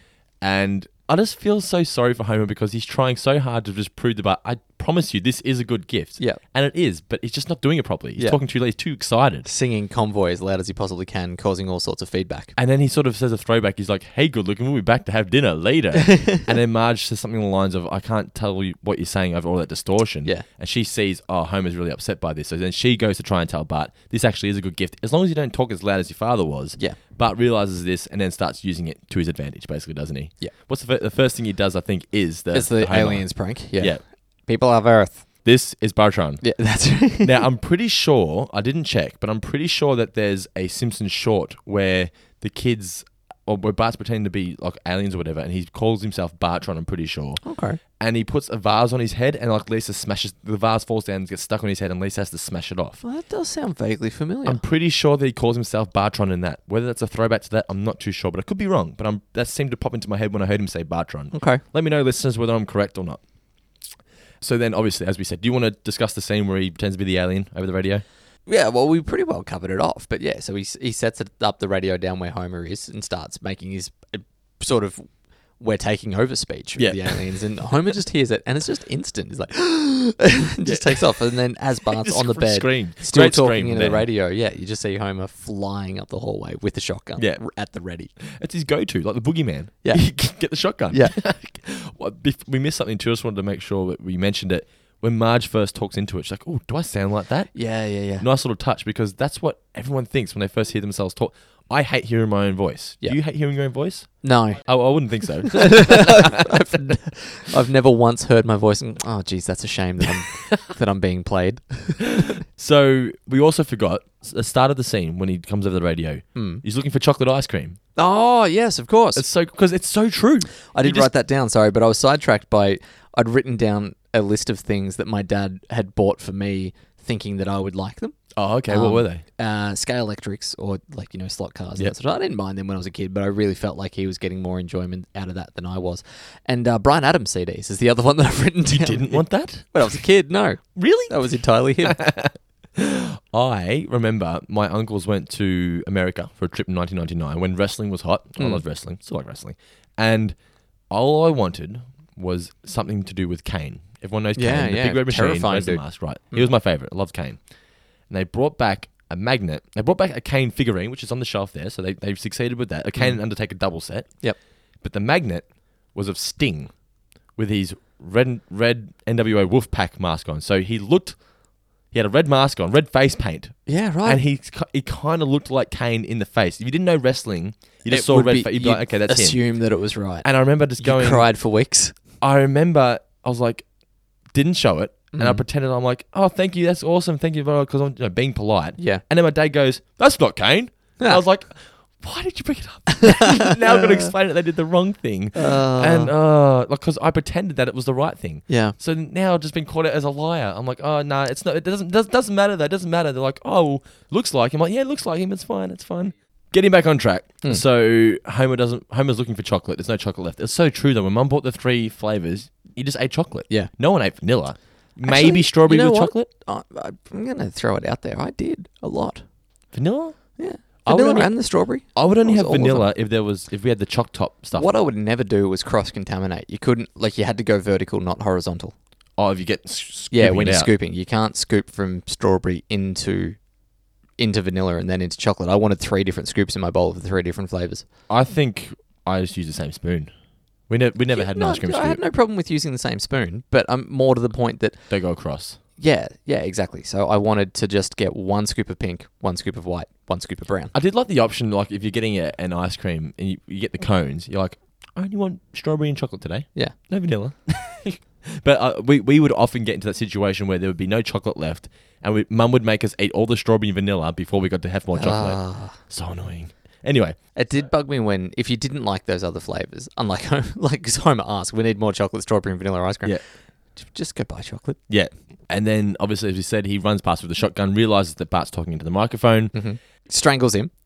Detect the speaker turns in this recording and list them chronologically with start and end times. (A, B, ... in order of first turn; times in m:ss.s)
0:00.4-0:09.5 A
0:09.4-0:12.5 B
0:12.6-0:34.0 A
0:16.0-0:16.4 B
0:32.5-0:35.2 B
0:35.4-0:36.5 A
0:36.4-0:37.4 B
0:37.2-0:47.4 A
0:47.4-0:47.8 B
0:48.0-0:53.0 A
0:53.0-0:54.6 B
0:54.4-1:03.2 A
1:01.3-1:01.6 B
1:04.4-1:08.0 A
1:08.5-1:15.1 B
1:15.6-1:28.1 B
1:16.8-1:17.3 A
1:20.6-1:21.3 A
1:21.8-1:24.0 A
1:27.2-1:27.4 A
1:28.2-1:37.6 A
1:29.8-1:30.2 B
1:30.9-1:31.2 B
1:37.5-1:38.2 B
1:38.2-1:47.0 A
1:44.2-1:44.6 B
1:45.5-1:52.1 B
1:50.2-1:50.6 A
1:52.0-1:57.8 A
1:56.4-1:56.6 B
1:58.0-1:59.2 B
1:59.1-2:01.1 A
2:00.7-2:08.2 B
2:08.3-2:09.2 A
2:08.7-2:22.0 B
2:18.6-2:20.0 A
2:20.8-2:30.4 A
2:28.4-2:28.6 B
2:30.9-2:37.4 A
2:34.4-2:36.5 B
2:38.1-2:44.1 A
2:44.8-2:46.7 A
2:47.3-2:51.2 A
2:51.9-2:59.4 A
2:53.7-2:54.2 B
2:57.9-3:00.3 B
3:00.2-3:01.3 A
3:00.8-3:02.0 B
3:02.2-3:03.6 A
3:04.3-3:36.3 A
3:05.1-3:05.4 B
3:08.8-3:09.0 B
3:13.0-3:14.1 B
3:15.3-3:16.1 B
3:18.5-3:18.8 B
3:35.0-3:39.2 B
3:39.7-3:40.2 A
3:40.4-3:42.9 B
3:40.8-3:44.7 A
3:44.5-3:48.7 B
3:49.2-3:50.7 A
3:50.1-3:53.4 B
3:54.2-3:57.8 B
3:58.1-4:00.1 A
4:00.7-4:02.0 A
4:01.1-4:04.8 B
4:04.9-4:05.6 A
4:05.8-4:10.7 B
4:10.7-4:27.2 A
4:24.9-4:25.8 B
4:27.3-4:33.2 B
4:33.7-4:34.8 B
4:34.9-4:39.5 A
4:39.5-4:40.7 B